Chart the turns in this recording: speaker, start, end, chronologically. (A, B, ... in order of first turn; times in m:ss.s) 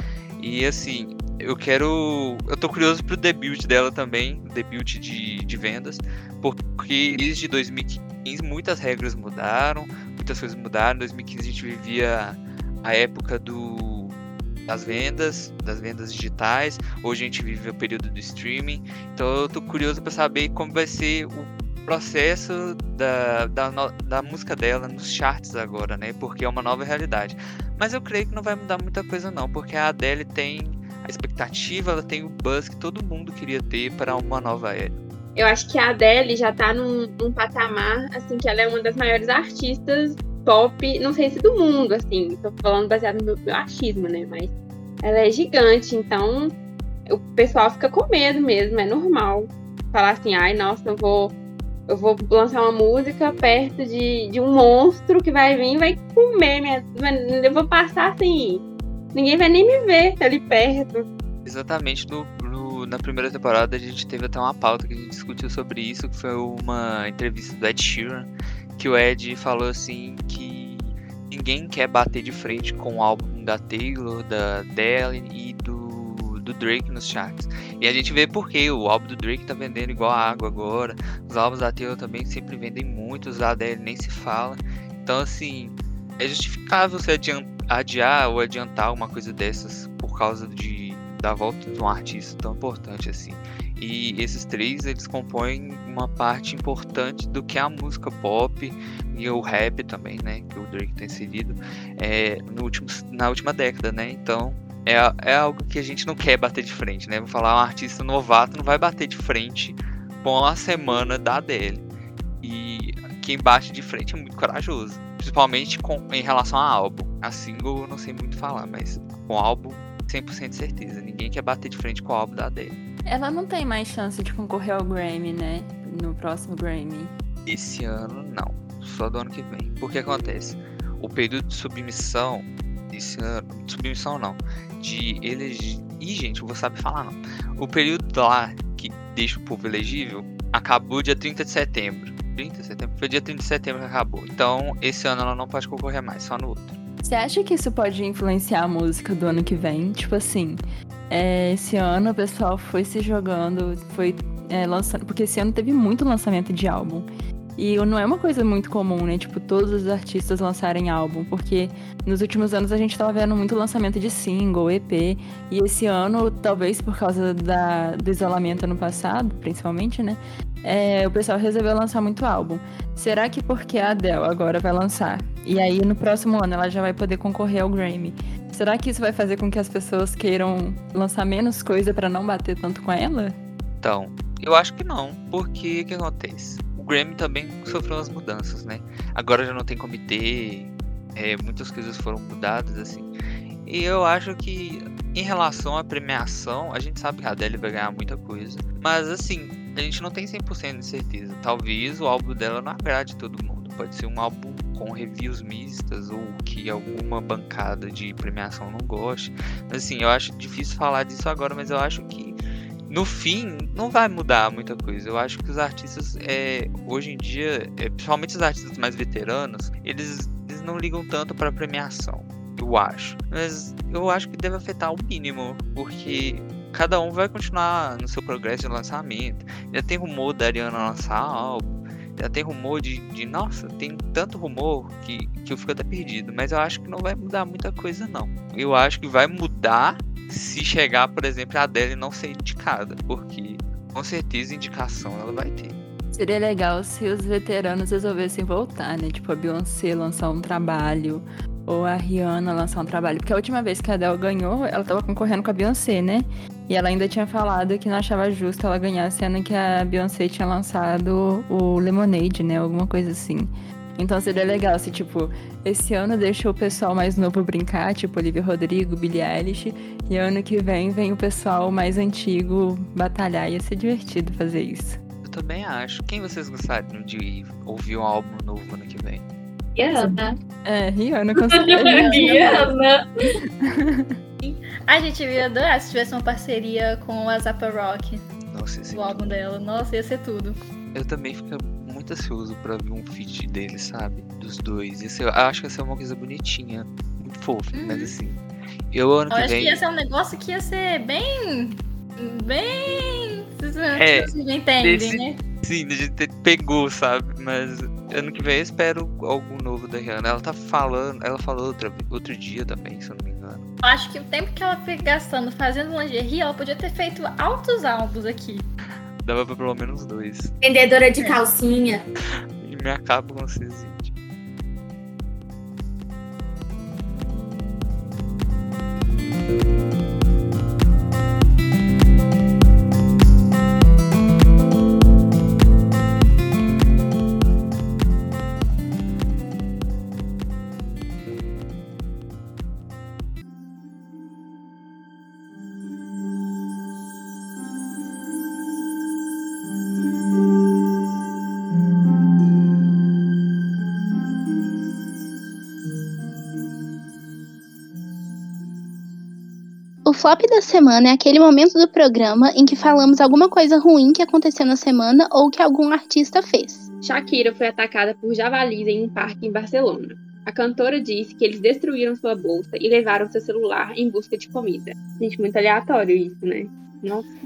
0:00.4-0:14.2 A
0:14.7-0:34.9 A
0:35.4-0:46.5 B
0:47.1-0:51.4 B
0:51.9-1:01.1 B
1:01.4-1:51.8 A
1:52.4-2:02.8 A
2:03.1-2:07.1 C
2:07.5-2:26.8 A
2:27.0-2:30.6 C
2:31.1-2:37.1 C
2:37.6-3:03.4 C
3:03.8-3:13.1 A
3:13.6-3:32.4 A
3:32.9-4:05.8 A
4:06.1-4:35.0 C
4:35.2-4:39.2 A
4:39.8-4:40.3 D
4:40.6-4:42.7 C
4:41.5-4:43.0 D
4:43.6-4:44.1 C
4:44.4-4:48.2 E
4:48.4-4:49.4 A
4:48.9-4:50.6 E
4:50.9-4:58.4 A
4:57.7-4:58.2 E
4:58.9-4:59.8 A
4:59.3-5:05.4 E
5:04.0-5:04.3 A
5:04.8-5:13.6 A
5:13.8-5:18.6 E
5:19.2-5:20.5 A
5:20.6-5:22.0 D
5:22.6-5:24.1 A
6:00.1-6:06.9 F
6:07.0-6:17.3 B